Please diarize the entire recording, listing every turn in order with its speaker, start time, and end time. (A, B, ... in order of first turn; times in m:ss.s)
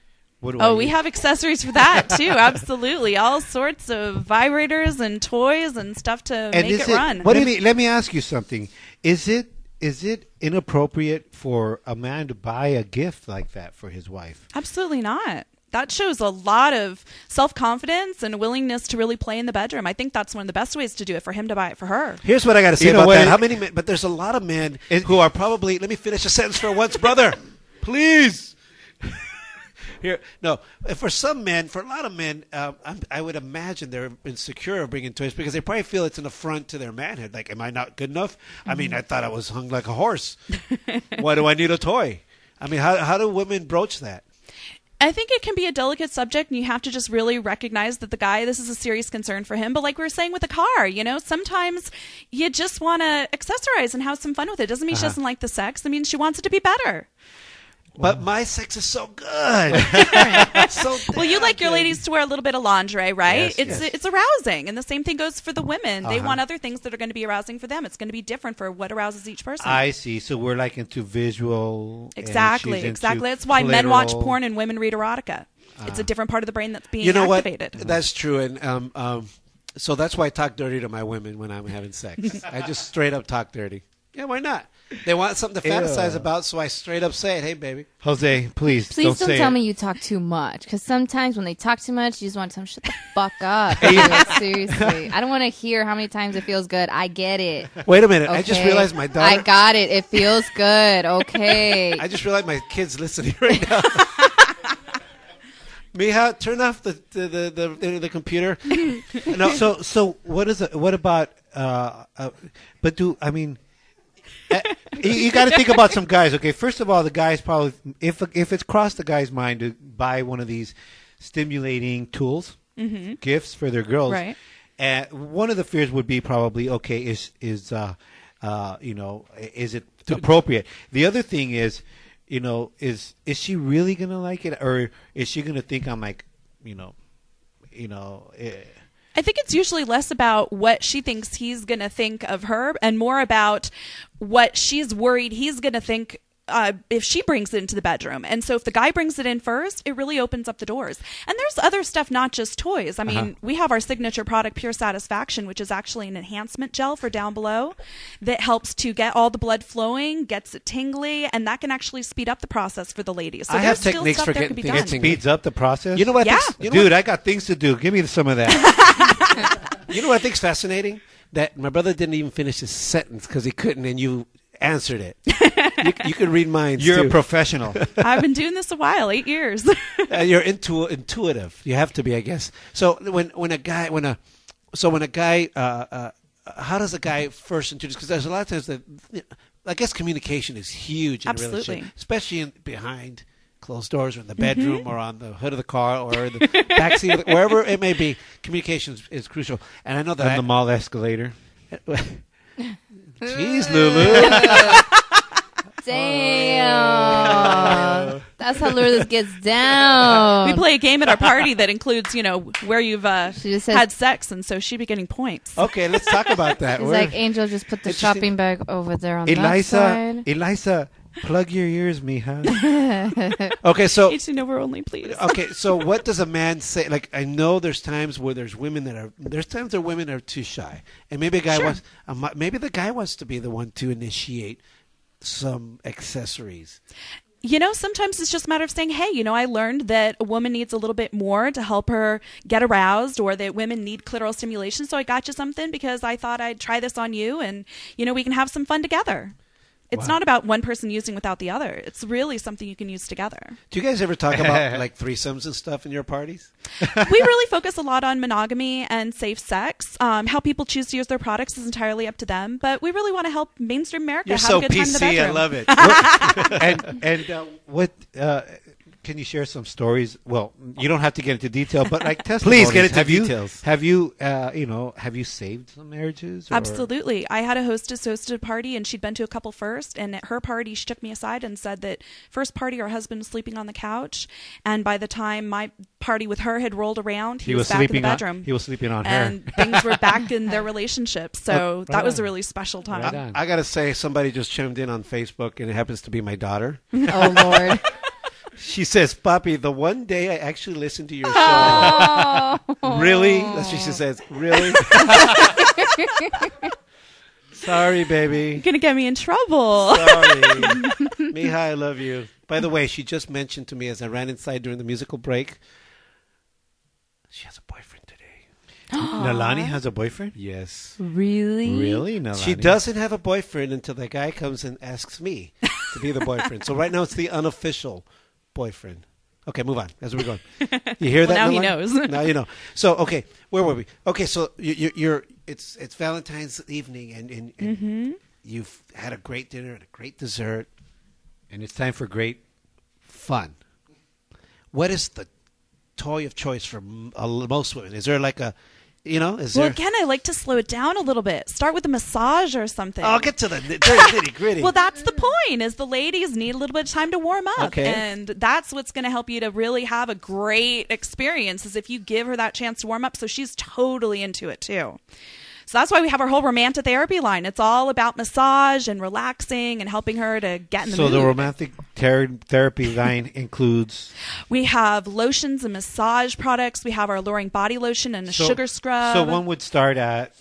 0:00.4-0:01.0 A
0:00.6-0:07.4 B
0:06.5-0:14.4 A
0:14.5-0:22.2 B
0:22.2-0:29.2 C
0:22.8-0:23.4 A
0:24.9-0:25.2 A
0:30.0-0:40.4 C
0:40.7-0:41.0 B
0:41.2-0:44.2 C
0:45.0-0:57.1 B
0:58.0-0:58.2 A
0:58.0-1:01.9 C
0:59.7-1:00.5 A
1:01.1-1:09.8 B
1:03.3-1:03.9 A
1:06.0-1:06.4 A
1:09.6-1:14.4 A
1:12.2-1:17.8 B
1:17.0-1:27.9 C
1:25.6-1:26.3 A
1:28.0-1:29.6 A
1:28.9-1:37.7 D
1:33.8-1:34.3 C
1:37.8-1:39.5 C
1:38.3-1:42.0 D
1:42.0-1:44.3 C
1:45.9-1:49.6 C
1:49.4-1:53.6 A
1:54.5-2:02.6 A
2:02.8-2:03.2 B
2:03.2-2:16.9 A
2:04.1-2:04.4 B
2:17.7-2:18.8 A
2:19.1-2:45.0 B
2:43.5-2:45.2 C
2:44.7-2:48.8 A
2:45.9-2:46.9 C
2:46.2-2:46.6 B
2:48.7-2:49.4 B
2:49.9-2:55.2 C
2:55.4-2:55.8 B
2:55.8-2:57.2 C
2:56.8-2:57.8 A
2:57.7-2:58.0 C
2:58.0-3:00.1 B
3:00.1-3:04.2 C
3:04.7-3:20.5 C
3:11.2-3:11.9 B
3:14.4-3:14.8 B
3:16.4-3:17.3 B
3:20.2-3:21.3 A
3:21.7-3:22.2 C
3:23.2-3:24.8 C
3:23.6-3:24.8 D
3:25.8-3:30.6 D
3:26.1-3:28.2 C
3:30.4-3:36.3 B
3:33.4-3:33.8 D
3:35.6-3:37.2 C
3:36.8-3:40.2 D
3:37.8-3:38.3 C
3:39.2-3:42.5 A
3:42.6-3:43.5 D
3:43.6-3:44.2 C
3:44.1-3:45.5 B
3:45.0-3:54.6 C
3:51.5-3:51.8 B
3:55.2-3:56.8 C
3:57.4-4:09.3 B
4:09.9-4:13.6 B
4:13.7-4:16.5 C
4:14.3-4:14.8 A
4:17.0-4:26.5 B
4:24.2-4:26.8 C
4:25.8-4:36.9 A
4:32.4-4:33.6 C
4:36.5-4:48.5 B
4:47.4-4:50.0 A
4:49.0-4:53.1 B
4:51.9-4:52.2 A
4:52.9-4:53.3 A
4:53.0-4:57.0 C
4:57.1-4:57.8 D
4:58.6-5:02.3 C
5:01.4-5:03.9 D
5:02.8-5:05.6 C
5:04.9-5:06.5 D
5:07.6-5:08.6 C
5:08.6-5:10.9 B
5:09.7-5:15.6 C
5:17.3-5:18.4 C
5:19.0-5:19.5 D
5:19.1-5:20.3 A
5:20.4-5:21.0 C
5:21.0-5:22.0 D
5:21.6-5:22.8 A
5:22.3-5:40.7 C
5:30.7-5:32.3 B
5:37.6-5:38.2 B
5:41.5-5:42.4 A
5:43.1-5:43.5 A
5:44.7-5:45.3 C
5:46.0-5:48.5 C
5:49.0-5:49.8 C
5:49.5-5:53.3 B
5:53.0-5:54.7 C
5:53.8-6:05.0 B
5:57.6-5:58.0 C
6:05.7-6:11.4 B
6:10.8-6:14.1 A
6:14.5-6:19.4 B
6:18.3-6:20.3 A